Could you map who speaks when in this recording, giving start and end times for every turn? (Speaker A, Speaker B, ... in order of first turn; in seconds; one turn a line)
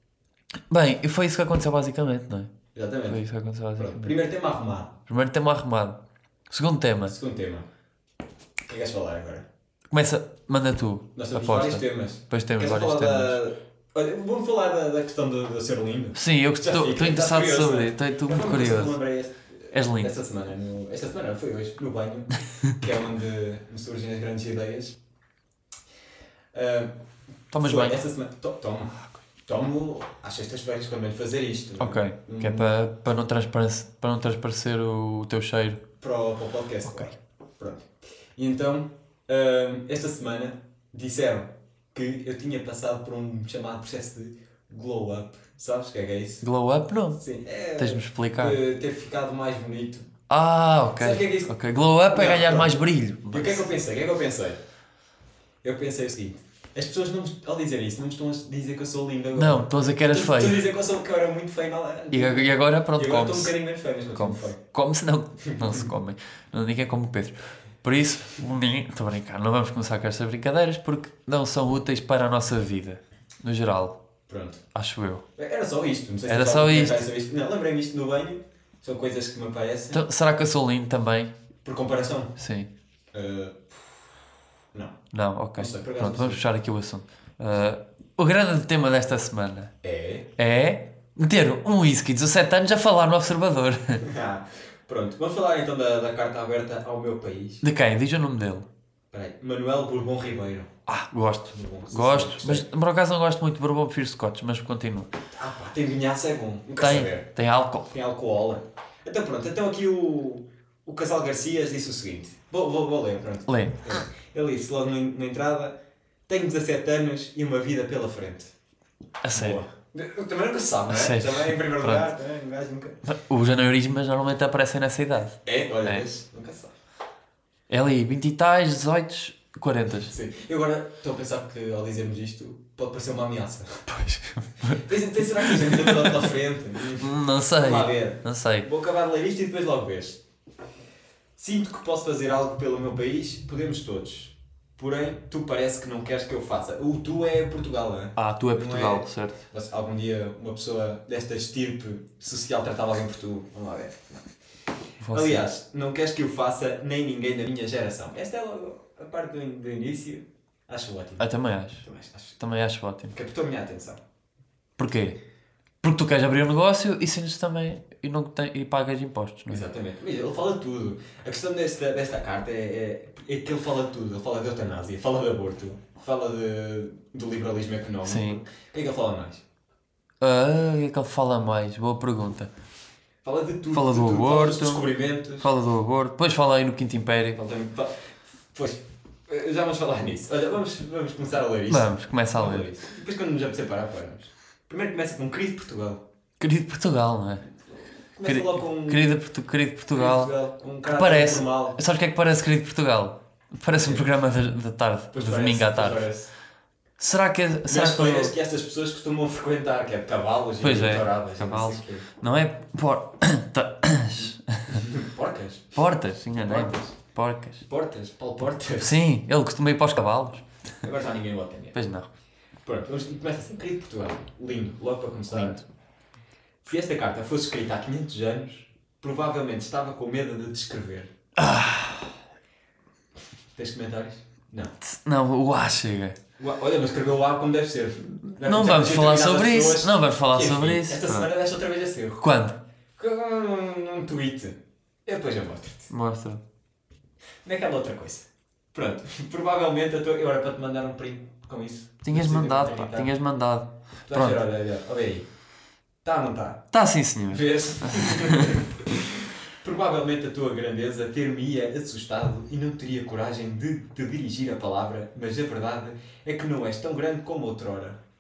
Speaker A: 0.7-2.5
Speaker B: 2.7-3.2
Speaker A: 3.0-4.1
Speaker B: 3.8-4.9
Speaker A: 5.1-6.0
Speaker A: 6.5-7.2
Speaker B: 7.1-7.7
Speaker B: 8.6-9.5
Speaker A: 9.9-13.4
Speaker B: 11.2-25.0
Speaker A: 16.1-19.0
Speaker A: 19.7-20.1
Speaker B: 26.5-26.9
Speaker A: 27.5-28.0
Speaker B: 27.6-32.7
Speaker A: 31.8-35.8
Speaker B: 36.0-46.5
Speaker A: 46.4-47.2
Speaker B: 47.1-50.1
Speaker A: 47.8-48.6
Speaker A: 50.3-53.7
Speaker B: 51.0-51.5
Speaker B: 52.1-52.8
Speaker B: 53.3-54.6
Speaker B: 55.6-64.6
Speaker A: 59.3-60.6
Speaker A: 62.1-63.5
Speaker A: 64.1-74.0
Speaker B: 65.4-65.9
Speaker B: 74.3-74.6
Speaker A: 74.7-75.2
Speaker B: 75.3-80.0
Speaker A: 76.3-77.0
Speaker A: 79.9-81.3
Speaker B: 81.6-82.3
Speaker A: 82.4-82.7
Speaker B: 83.1-83.7
Speaker A: 85.1-89.7
Speaker B: 85.6-86.4
Speaker B: 89.8-90.3
Speaker A: 90.4-94.0
Speaker B: 94.0-97.6
Speaker A: 97.6-98.7
Speaker B: 99.1-100.7
Speaker A: 100.9-105.1
Speaker B: 101.5-102.7
Speaker B: 105.3-107.3
Speaker A: 106.8-107.9
Speaker B: 107.9-115.8
Speaker A: 113.5-113.8
Speaker B: 116.3-118.5
Speaker A: 119.2-119.6
Speaker B: 119.3-123.0
Speaker A: 120.9-122.0
Speaker A: 123.0-126.0
Speaker B: 125.4-126.7
Speaker A: 127.7-130.1
Speaker B: 130.1-133.9
Speaker A: 133.9-136.3
Speaker B: 134.6-140.2
Speaker A: 136.9-138.7
Speaker B: 141.4-154.2
Speaker A: 148.2-149.4
Speaker A: 155.0-155.4
Speaker B: 155.1-162.4
Speaker A: 161.2-161.8
Speaker A: 162.4-163.1
Speaker B: 163.1-164.0
Speaker A: 164.8-165.2
Speaker A: 165.8-169.6
Speaker B: 169.5-179.4
Speaker A: 178.0-178.4
Speaker A: 180.2-182.5
Speaker B: 183.2-185.5
Speaker A: 183.7-187.5
Speaker B: 187.4-196.0
Speaker A: 191.7-192.7
Speaker A: 196.4-197.4
Speaker B: 198.1-199.2
Speaker A: 198.2-200.3
Speaker B: 199.9-201.8
Speaker A: 200.9-206.1
Speaker B: 203.7-204.1
Speaker B: 205.1-206.3
Speaker A: 207.0-208.3
Speaker B: 207.7-212.1
Speaker A: 210.6-214.8
Speaker B: 214.7-215.8
Speaker A: 215.7-217.7
Speaker B: 216.4-217.0
Speaker B: 217.7-219.0
Speaker A: 218.8-220.5
Speaker B: 220.8-221.8
Speaker A: 221.7-222.1
Speaker B: 222.6-225.7
Speaker B: 226.6-231.1
Speaker A: 231.3-232.1
Speaker B: 233.5-234.7
Speaker A: 234.8-236.2
Speaker B: 236.4-245.9
Speaker A: 238.4-241.3
Speaker A: 242.2-242.6
Speaker A: 245.9-246.4
Speaker B: 247.4-253.1
Speaker A: 252.0-254.4
Speaker B: 254.1-255.3
Speaker B: 256.0-256.7
Speaker A: 256.7-258.6
Speaker B: 257.3-268.0